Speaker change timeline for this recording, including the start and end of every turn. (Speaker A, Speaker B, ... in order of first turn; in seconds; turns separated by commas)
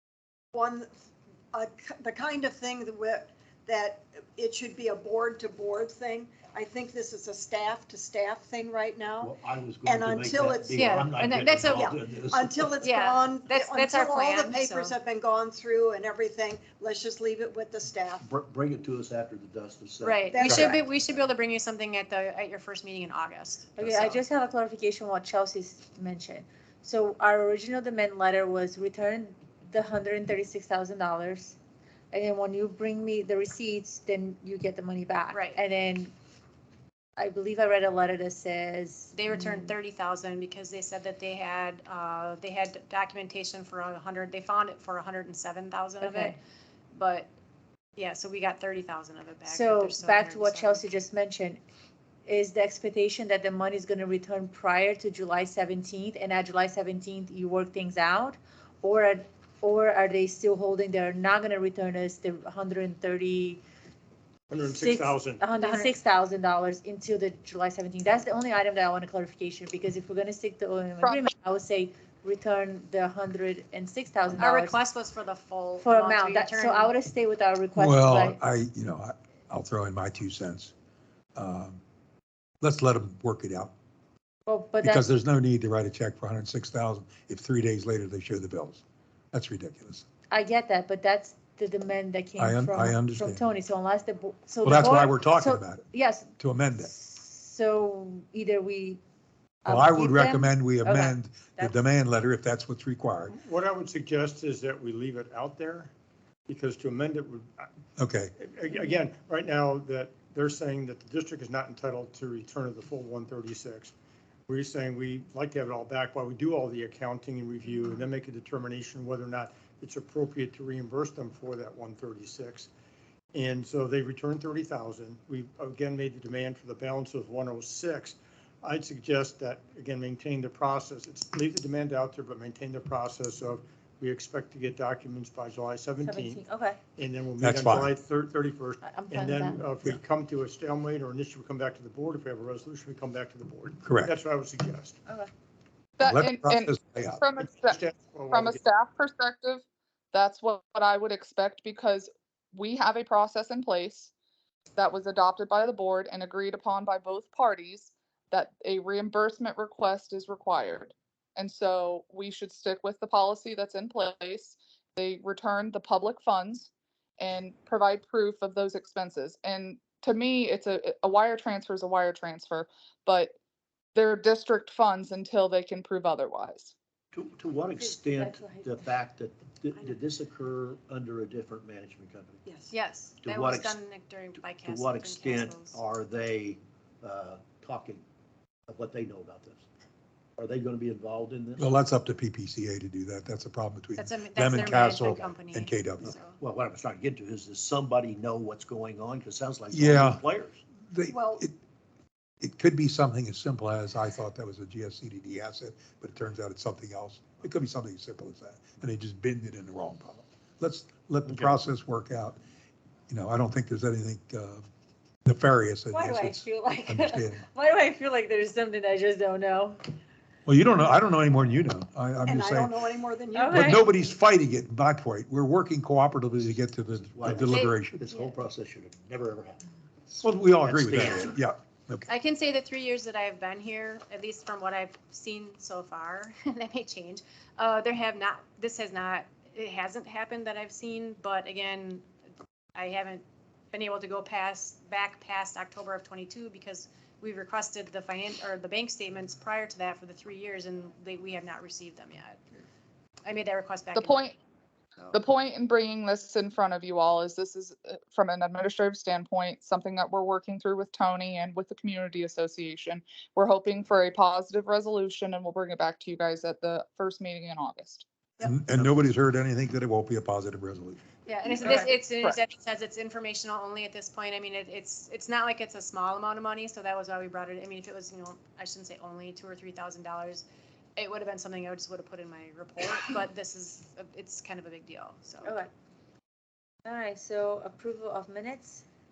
Speaker A: 0.5-0.9, Speaker A: 1.5-9.3, Speaker B: 9.2-12.8, Speaker A: 9.8-10.9, Speaker C: 10.7-11.9, Speaker A: 11.7-18.2, Speaker C: 12.8-14.9, Speaker B: 18.2-21.3, Speaker C: 20.0-24.1, Speaker A: 20.3-20.8, Speaker D: 23.8-31.6, Speaker D: 32.1-36.1, Speaker C: 35.3-35.6, Speaker D: 37.2-39.7, Speaker C: 39.1-46.4, Speaker D: 46.0-46.4, Speaker C: 46.9-47.3, Speaker C: 48.0-50.8, Speaker D: 49.4-51.6, Speaker D: 52.2-63.6, Speaker E: 64.5-65.4, Speaker D: 64.6-74.8, Speaker C: 65.6-65.9, Speaker F: 71.0-71.3, Speaker C: 74.3-76.9, Speaker D: 75.8-78.4, Speaker G: 77.8-80.7, Speaker G: 81.3-81.8, Speaker G: 82.6-83.7, Speaker D: 84.5-85.0, Speaker G: 84.8-90.0, Speaker D: 90.3-99.0, Speaker G: 92.4-93.4, Speaker G: 94.6-95.8, Speaker G: 96.4-96.9, Speaker D: 99.6-101.8, Speaker G: 99.7-103.4, Speaker E: 103.3-105.9, Speaker E: 106.5-107.7, Speaker G: 108.0-108.3, Speaker E: 108.4-113.9, Speaker E: 114.5-122.7, Speaker E: 123.3-136.4, Speaker D: 136.0-136.8, Speaker E: 137.0-145.0, Speaker G: 137.4-137.9, Speaker D: 138.8-139.7, Speaker G: 143.8-144.1, Speaker F: 146.0-149.6, Speaker G: 146.0-147.2, Speaker E: 147.6-148.6, Speaker F: 150.1-154.1, Speaker F: 154.8-173.3, Speaker F: 173.9-176.7, Speaker B: 177.1-182.4, Speaker D: 177.8-178.7, Speaker A: 182.4-182.7, Speaker C: 182.7-185.8, Speaker B: 183.2-183.8, Speaker B: 184.6-188.0, Speaker B: 188.7-189.6, Speaker B: 190.4-191.8, Speaker G: 191.6-196.1, Speaker C: 193.9-196.3, Speaker B: 196.0-200.6, Speaker G: 199.7-200.2, Speaker G: 200.8-201.5, Speaker A: 201.1-201.4, Speaker G: 202.4-212.4, Speaker B: 211.2-211.5, Speaker G: 213.1-214.6, Speaker G: 215.2-217.4, Speaker D: 215.9-219.9, Speaker G: 220.4-222.7, Speaker A: 222.2-223.8, Speaker D: 223.3-223.8, Speaker G: 223.5-228.0, Speaker B: 226.4-231.4, Speaker C: 227.5-227.8, Speaker G: 230.2-232.0, Speaker C: 232.1-242.1, Speaker C: 242.8-252.4, Speaker C: 253.2-254.3, Speaker F: 253.9-254.4, Speaker F: 255.1-268.0, Speaker G: 268.4-271.0, Speaker C: 271.3-280.4, Speaker F: 271.6-272.4, Speaker C: 280.9-285.5, Speaker D: 285.4-285.7, Speaker D: 286.8-288.8